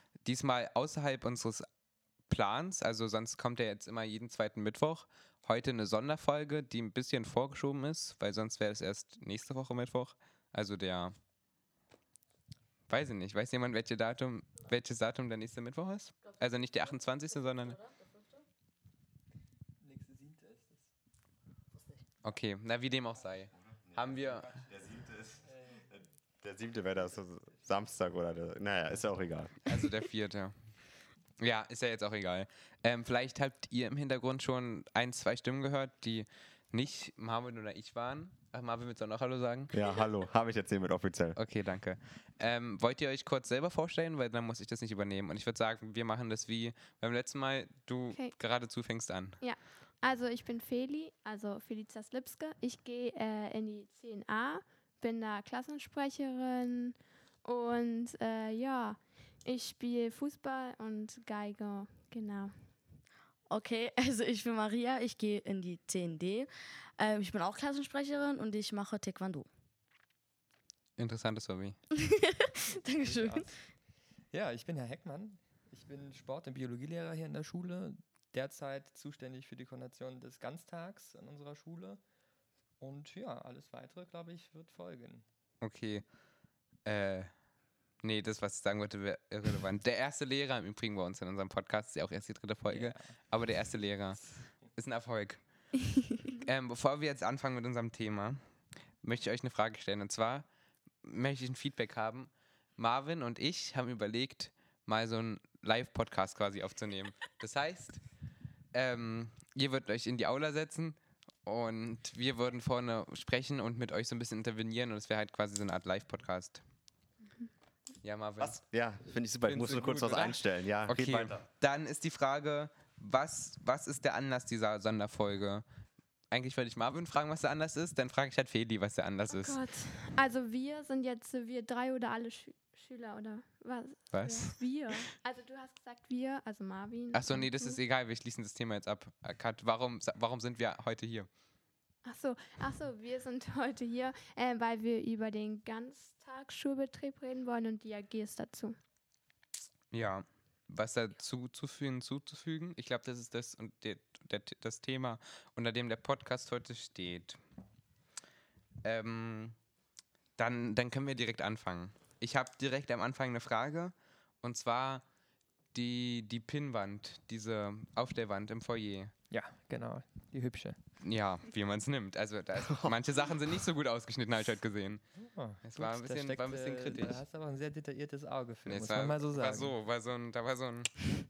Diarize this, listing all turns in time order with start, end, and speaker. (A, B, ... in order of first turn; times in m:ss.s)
0:00.2-0:01.7 A
0:02.3-0:11.2 A
0:12.9-0:17.8 A
0:17.8-0:18.1 B
0:19.8-0:20.8 C
0:22.2-0:24.7 A
0:24.7-0:25.4 D
0:26.4-0:29.6 D
0:29.6-0:39.7 A
0:39.7-0:41.4 D
0:41.4-0:49.4 A
0:49.4-1:02.6 E
1:03.5-1:09.5 B
1:11.0-1:11.8 A
1:12.0-1:13.5 B
1:13.0-1:13.5 C
1:14.3-1:22.0 C
1:22.8-1:25.2 C
1:25.6-1:26.0 A
1:26.8-1:27.3 A
1:28.0-1:40.5 A
1:32.7-1:33.1 C
1:41.0-1:48.0 A
1:48.7-1:56.6 A
1:58.0-1:58.6 A
1:58.4-2:01.4 D
1:59.4-2:05.6 A
2:06.3-2:09.6 A
2:09.3-2:17.8 E
2:14.1-2:14.6 A
2:17.1-2:21.3 A
2:22.0-2:28.8 E
2:29.9-2:37.4 A
2:38.8-2:39.6 A
2:40.4-2:45.0 A
2:45.7-2:49.1 A
2:49.3-2:50.8 C
2:51.0-2:55.0 A
2:55.2-2:59.7 C
2:55.6-2:57.2 A
2:58.6-3:01.1 A